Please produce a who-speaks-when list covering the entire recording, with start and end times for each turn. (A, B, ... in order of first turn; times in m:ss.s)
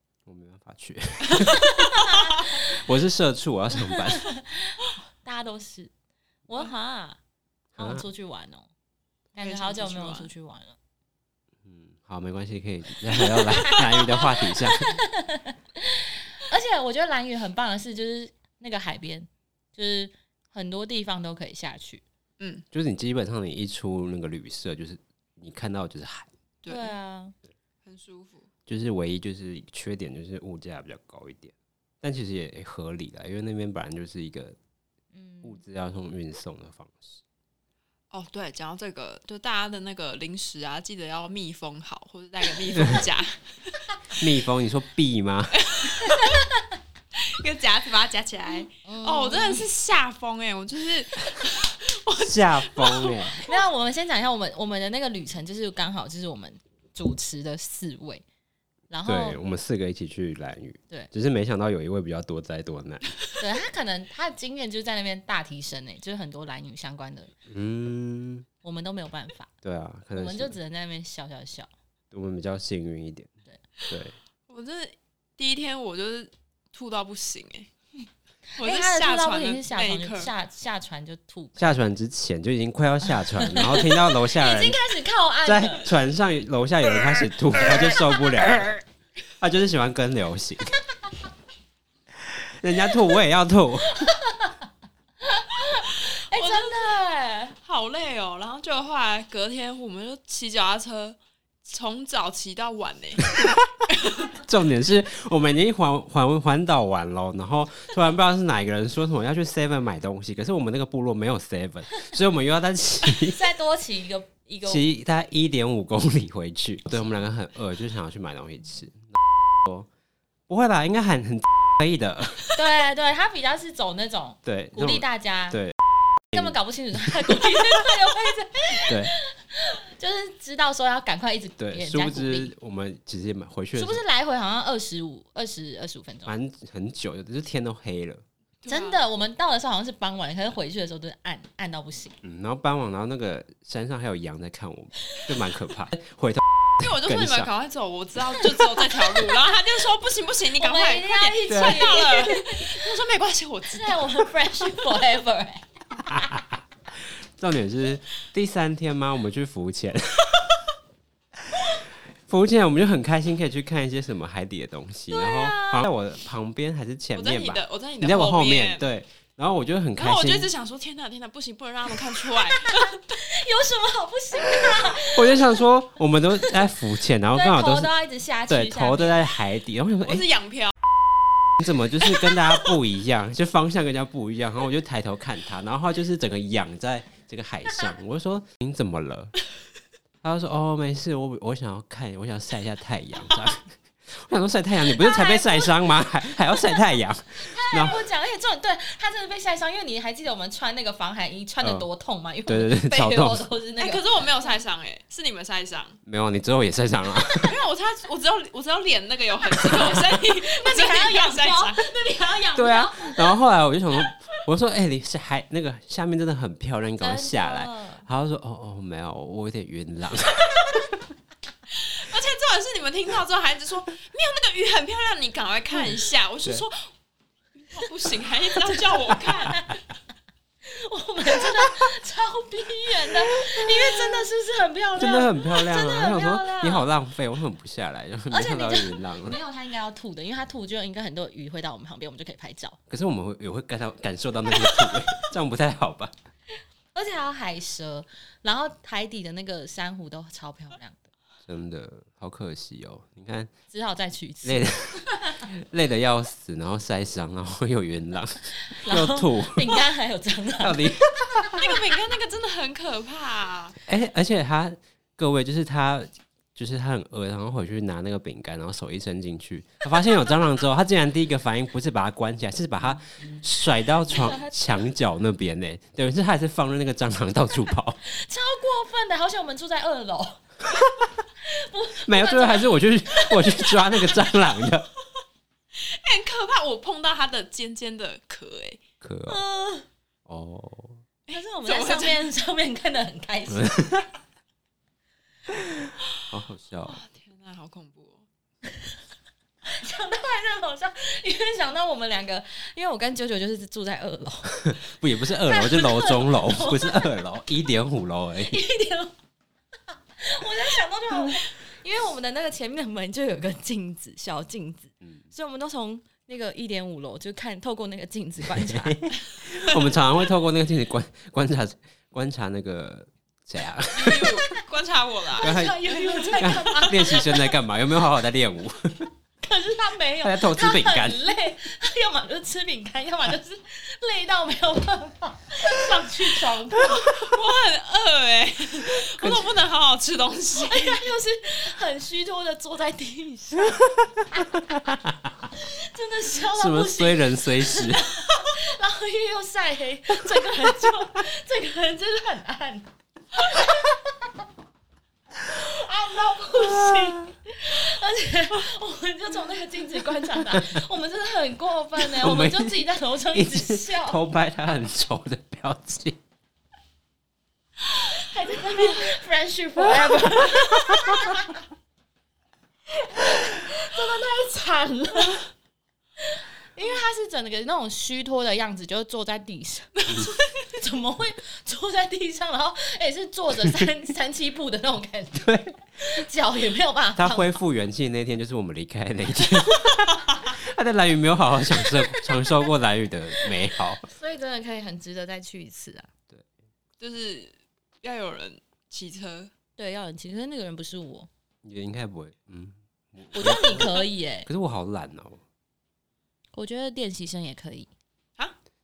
0:00.2-0:01.8 A
0:01.5-0:02.8 B
0:02.4-0:04.3 A
0:03.8-0:05.9 B
0:06.5-0:07.2 B
0:07.8-0:08.0 A
0:07.8-0:08.7 B
0:09.3-0:10.8 B
0:09.4-0:10.3 C
0:11.6-0:14.9 A
0:13.2-0:22.0 B
0:22.4-0:22.6 C
0:22.7-0:26.3 A
0:26.6-0:26.9 C
0:26.7-0:27.3 B
0:27.8-0:28.5 C
0:28.7-0:34.6 A
0:35.1-0:35.6 B
0:35.4-0:37.2 A
0:38.1-0:43.8 C
0:44.2-0:45.6 A
0:45.5-0:46.4 C
0:46.0-0:46.6 B
0:47.1-0:53.4 C
0:48.8-0:49.6 B
0:52.2-0:53.5 A
0:53.4-0:58.2 B
0:58.9-0:59.4 B
0:59.0-1:03.1 A
1:03.4-1:07.3 B
1:07.5-1:08.4 A
1:08.6-1:09.5 B
1:09.6-1:10.6 A
1:10.1-1:11.7 B
1:12.1-1:13.3 A
1:13.9-1:14.1 A
1:14.5-1:17.7 C
1:18.5-1:21.7 B
1:18.6-1:20.3 C
1:21.6-1:24.8 A
1:23.3-1:25.9 B
1:25.4-1:28.8 A
1:29.4-1:30.7 A
1:32.3-1:34.1 A
1:34.0-1:34.6 B
1:35.2-1:37.6 B
1:36.3-1:37.0 C
1:37.6-1:44.4 C
1:44.4-1:53.4 A
1:53.2-1:54.8 B
1:54.6-1:59.9 A
2:00.5-2:02.4 A
2:02.5-2:05.6 B
2:04.4-2:05.8 A
2:06.3-2:12.5 B
2:08.9-2:09.1 A
2:11.6-2:14.0 A
2:13.7-2:16.4 B
2:16.2-2:18.2 A
2:18.6-2:19.0 C
2:18.7-2:22.2 B
2:22.2-2:27.5 A
2:26.8-2:34.8 C
2:30.6-2:32.7 B
2:31.5-2:31.9 A
2:33.7-2:36.2 B
2:37.4-2:40.4 A
2:42.3-2:50.5 A
2:45.1-2:45.9 B
2:47.1-2:48.9 C
2:50.0-2:52.9 C
2:52.7-2:55.5 B
2:54.8-2:57.9 A
2:57.3-2:59.2 B
2:58.5-3:00.3 A
3:00.0-3:00.7 C
3:01.6-3:09.3 A
3:10.2-3:18.0 A
3:15.0-3:15.8 B
3:16.6-3:16.8 B
3:17.4-3:24.0 B
3:21.6-3:21.9 A
3:22.5-3:23.5 A
3:23.8-3:26.0 C
3:26.0-3:27.5 A
3:27.4-3:31.8 C
3:30.0-3:33.4 B
3:32.5-3:40.8 A
3:37.0-3:38.1 B
3:41.7-3:46.9 C
3:47.5-3:49.6 C
3:49.5-3:49.7 B
3:50.6-3:56.9 B
3:53.6-3:54.2 A
3:55.0-3:59.4 A
3:58.3-4:02.8 B
4:02.9-4:06.1 A
4:04.5-4:04.9 B
4:06.9-4:11.0 B
4:11.4-4:13.5 A
4:13.7-4:15.4 B
4:14.4-4:19.9 A
4:18.6-4:21.5 B
4:20.6-4:21.7 A
4:21.6-4:23.8 C
4:23.8-4:38.0 A
4:34.1-4:34.5 B
4:38.0-4:40.4 B
4:41.4-4:44.3 B
4:42.0-4:44.9 A
4:45.7-4:48.8 C
4:49.0-4:49.4 A
4:49.3-4:49.8 B
4:50.2-4:51.0 A
4:51.3-4:52.2 C
4:51.3-4:54.0 B
4:53.5-4:54.0 A
4:56.3-4:57.0 A
4:56.8-4:58.2 C
4:59.6-5:04.8 B
5:04.6-5:08.6 A
5:05.4-5:07.2 B
5:08.5-5:09.1 B
5:10.2-5:19.0 B
5:18.6-5:24.5 A
5:23.9-5:26.9 C
5:25.4-5:29.1 A
5:25.4-5:27.5 B
5:29.4-5:37.1 B
5:30.2-5:31.2 A
5:36.9-5:41.1 C
5:39.2-5:39.4 A
5:40.6-5:43.8 B
5:44.8-5:45.1 A
5:45.5-5:54.0 B
5:46.5-5:48.1 A
5:55.4-6:04.3 B
6:02.0-6:06.2 A
6:07.9-6:11.6 B
6:13.0-6:15.4 B
6:16.2-6:27.5 B
6:20.0-6:20.7 C
6:25.3-6:25.8 A
6:27.2-6:34.1 A
6:34.0-6:36.1 B
6:37.0-6:39.5 C
6:39.8-6:41.3 B
6:41.6-6:45.4 A
6:43.3-6:44.5 B
6:46.5-6:47.9 B